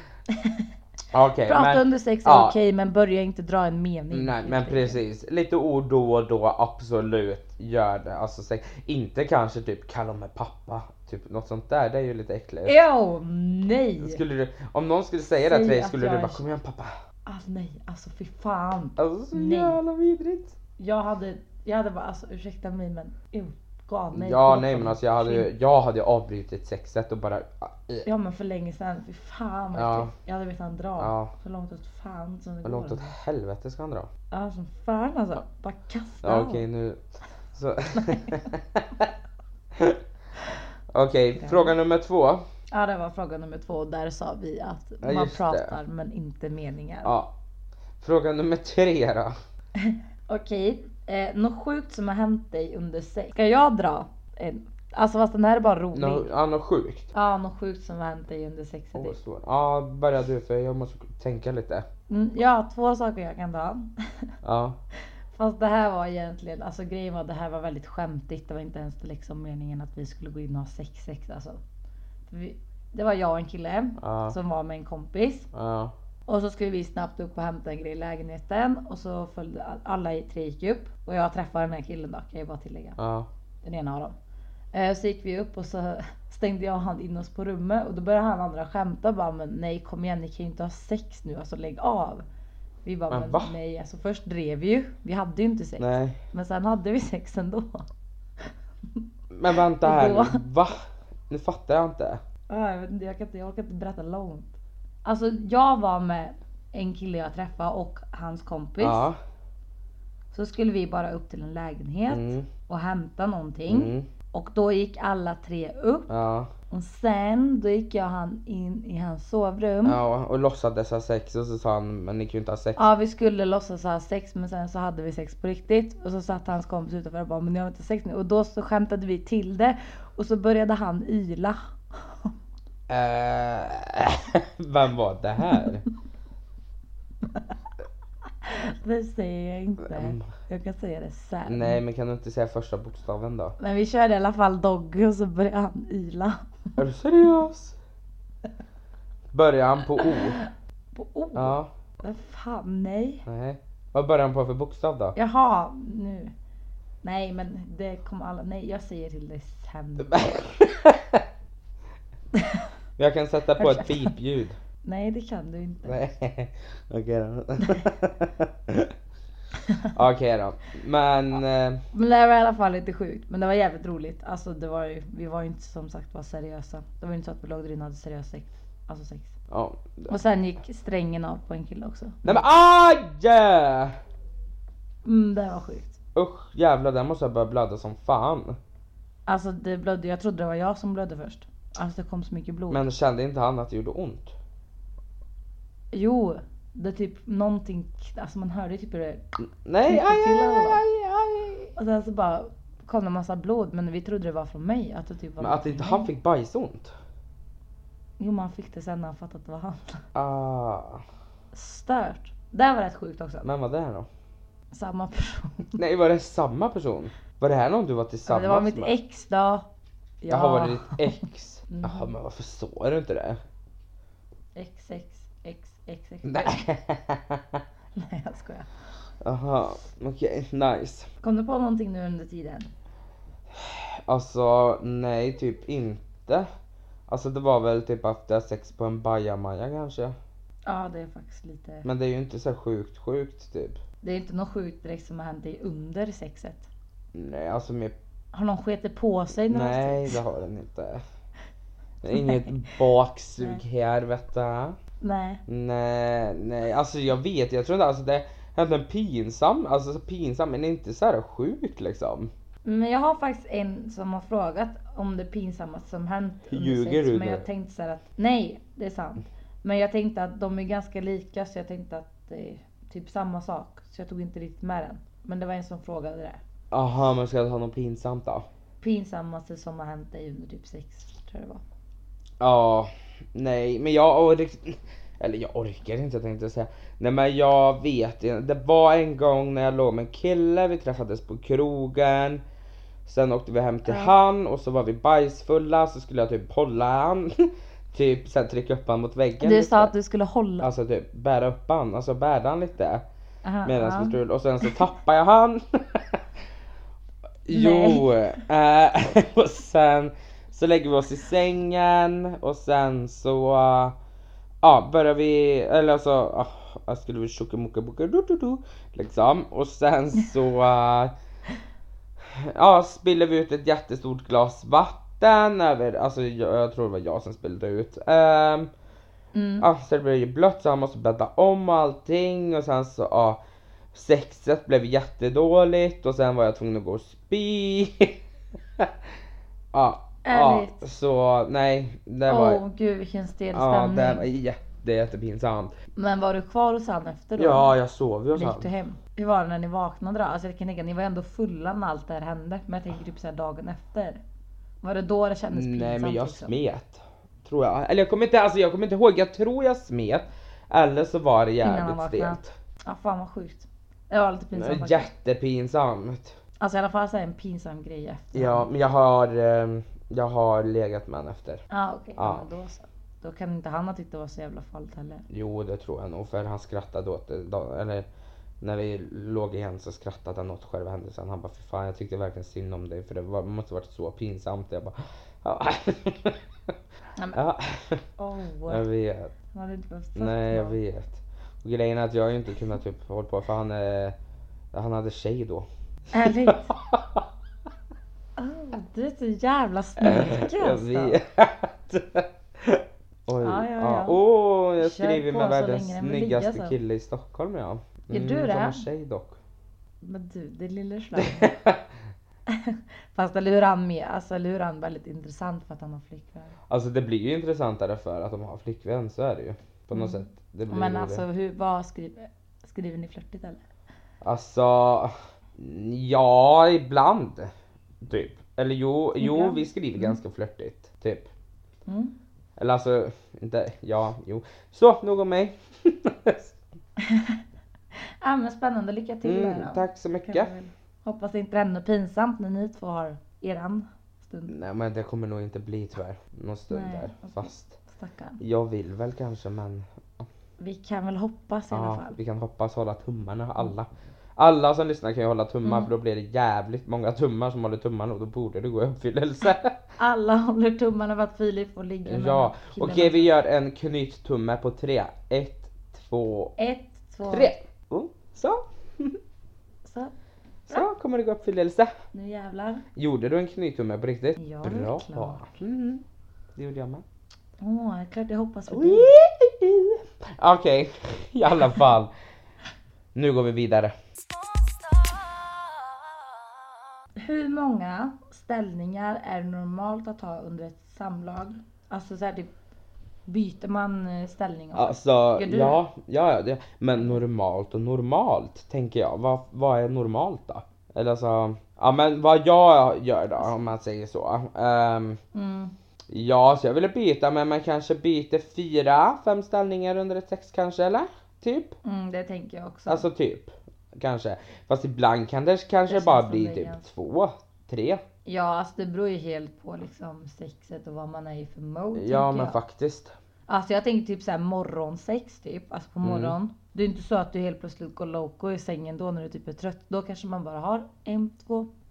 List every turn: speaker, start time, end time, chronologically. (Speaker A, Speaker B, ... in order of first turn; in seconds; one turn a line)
Speaker A: 0.3-0.7
Speaker B: 1.1-2.5
Speaker A: 1.4-5.0
Speaker B: 4.1-12.8
Speaker A: 12.6-14.2
Speaker B: 14.0-16.9
Speaker A: 15.3-16.4
Speaker A: 17.2-19.8
Speaker B: 19.0-20.6
Speaker A: 20.8-25.5
Speaker B: 24.1-28.1
Speaker A: 28.0-33.1
Speaker B: 29.7-30.1
Speaker B: 31.0-31.3
Speaker B: 32.6-34.1
Speaker A: 34.3-36.6
Speaker B: 36.2-37.0
Speaker B: 37.5-39.1
Speaker B: 39.7-40.0
Speaker B: 40.9-42.4
Speaker A: 41.4-41.7
Speaker A: 42.7-47.1
Speaker B: 45.0-45.7
Speaker B: 47.0-47.3
Speaker B: 48.0-49.3
Speaker A: 49.8-56.3
Speaker B: 55.9-57.1
Speaker A: 57.1-59.2
Speaker B: 58.9-61.9
Speaker A: 62.1-64.3
Speaker B: 64.4-64.8
Speaker A: 65.3-71.6
Speaker A: 72.3-75.5
Speaker B: 74.0-74.3
Speaker B: 75.5-75.9
Speaker A: 76.3-83.0
Speaker B: 83.0-83.3
Speaker A: 83.6-84.1
Speaker A: 84.7-92.2
Speaker A: 92.8-97.8
Speaker B: 93.1-93.5
Speaker B: 95.8-96.2
Speaker B: 99.3-102.2
Speaker A: 99.8-100.4
Speaker A: 102.5-109.1
Speaker B: 108.8-109.2
Speaker A: 110.3-116.1
Speaker B: 112.1-112.5
Speaker B: 113.7-114.1
Speaker B: 116.1-116.5
Speaker A: 116.7-120.0
Speaker B: 119.8-122.9
Speaker A: 122.8-132.3
Speaker B: 132.9-135.8
Speaker A: 138.4-141.8
Speaker B: 139.9-140.2
Speaker B: 141.5-143.6
Speaker A: 143.6-146.8
Speaker B: 146.8-147.8
Speaker B: 149.3-150.4
Speaker A: 150.0-153.2
Speaker B: 151.3-151.7
Speaker B: 153.2-155.2
Speaker A: 155.1-156.3
Speaker A: 157.0-160.2
Speaker B: 160.0-161.2
Speaker A: 162.3-162.6
Speaker B: 163.0-164.6
Speaker A: 163.6-164.1
Speaker A: 164.8-166.0
Speaker B: 165.8-168.9
Speaker A: 167.6-167.9
Speaker B: 169.9-171.8
Speaker A: 171.9-179.3
Speaker B: 179.5-180.1
Speaker A: 180.1-182.4
Speaker B: 182.2-183.9
Speaker A: 185.0-186.0
Speaker B: 186.1-188.6
Speaker A: 189.3-192.8
Speaker B: 192.7-194.3
Speaker A: 195.9-199.2
Speaker B: 199.6-201.7
Speaker A: 199.8-200.8
Speaker A: 201.8-206.1
Speaker B: 205.4-206.9
Speaker A: 208.2-210.0
Speaker B: 210.1-211.0
Speaker A: 211.5-213.5
Speaker B: 213.4-214.1
Speaker A: 214.7-215.8
Speaker B: 215.8-218.9
Speaker A: 218.2-219.7
Speaker A: 220.2-222.1
Speaker B: 220.3-223.4
Speaker A: 224.5-226.7
Speaker B: 226.2-227.6
Speaker A: 227.9-228.7
Speaker B: 229.2-231.1
Speaker A: 231.2-232.7
Speaker B: 233.5-236.5
Speaker B: 237.1-240.1
Speaker A: 240.7-241.9
Speaker B: 241.8-243.8
Speaker A: 244.0-246.7
Speaker B: 247.1-247.9
Speaker A: 248.3-250.2
Speaker B: 249.5-251.0
Speaker B: 252.0-254.8
Speaker A: 252.1-252.5
Speaker A: 255.0-255.4
Speaker B: 255.5-262.3
Speaker A: 262.6-276.4
Speaker B: 266.5-267.4
Speaker B: 276.7-278.4
Speaker A: 278.8-281.6
Speaker B: 282.4-292.4
Speaker B: 293.1-299.9
Speaker A: 293.9-294.1
Speaker A: 299.4-300.7
Speaker B: 300.6-303.0
Speaker A: 303.4-304.1
Speaker B: 303.6-306.2
Speaker B: 307.4-313.9
Speaker A: 307.5-308.4
Speaker B: 314.6-321.1
Speaker B: 322.2-328.7
Speaker A: 329.3-329.7
Speaker B: 329.6-333.4
Speaker B: 333.9-338.2
Speaker B: 339.7-342.6
Speaker A: 340.2-340.8
Speaker A: 342.2-344.3
Speaker B: 343.5-345.7
Speaker A: 345.9-347.7
Speaker B: 347.4-348.7
Speaker A: 348.3-354.2
Speaker A: 354.8-356.5
Speaker B: 355.5-362.5
Speaker A: 361.6-365.1
Speaker B: 364.5-366.4
Speaker A: 366.6-368.7
Speaker B: 368.3-371.6
Speaker A: 371.7-375.2
Speaker B: 372.2-372.5
Speaker B: 375.3-378.1
Speaker B: 378.6-386.4
Speaker B: 387.3-388.0
Speaker A: 388.2-388.9
Speaker B: 388.7-389.3
Speaker A: 389.5-390.8
Speaker B: 390.1-394.1
Speaker B: 394.7-395.7
Speaker A: 396.1-396.7
Speaker B: 396.2-397.2
Speaker A: 398.4-401.2
Speaker B: 400.0-409.4
Speaker A: 403.4-404.2
Speaker A: 404.8-406.8
Speaker A: 408.1-408.9
Speaker A: 410.0-411.5
Speaker B: 411.2-411.8
Speaker A: 412.5-416.6
Speaker B: 416.7-421.2
Speaker A: 419.9-423.6
Speaker B: 424.2-427.5
Speaker B: 428.0-431.3
Speaker A: 429.2-430.2
Speaker A: 431.9-432.1
Speaker B: 432.6-436.6
Speaker A: 437.0-437.4
Speaker A: 438.2-444.5
Speaker B: 439.2-440.5
Speaker B: 444.5-447.8
Speaker A: 446.7-448.4
Speaker B: 448.4-450.3
Speaker A: 450.6-452.2
Speaker B: 451.7-459.8
Speaker A: 455.6-455.9
Speaker A: 460.0-463.3
Speaker B: 462.1-466.5
Speaker A: 466.6-467.5
Speaker B: 467.3-469.2
Speaker A: 469.8-470.1
Speaker B: 470.7-471.9
Speaker A: 472.1-472.9
Speaker B: 472.9-476.0
Speaker A: 474.4-475.6
Speaker B: 476.6-477.0
Speaker A: 477.6-479.1
Speaker B: 478.7-482.1
Speaker B: 483.1-483.9
Speaker A: 487.1-492.5
Speaker A: 493.3-495.8
Speaker B: 494.7-505.2
Speaker A: 505.3-505.7
Speaker B: 506.1-511.8
Speaker A: 511.8-513.0
Speaker B: 512.9-518.0
Speaker A: 515.9-516.9
Speaker A: 518.2-522.6
Speaker B: 522.0-523.1
Speaker A: 523.5-531.7
Speaker B: 526.0-526.4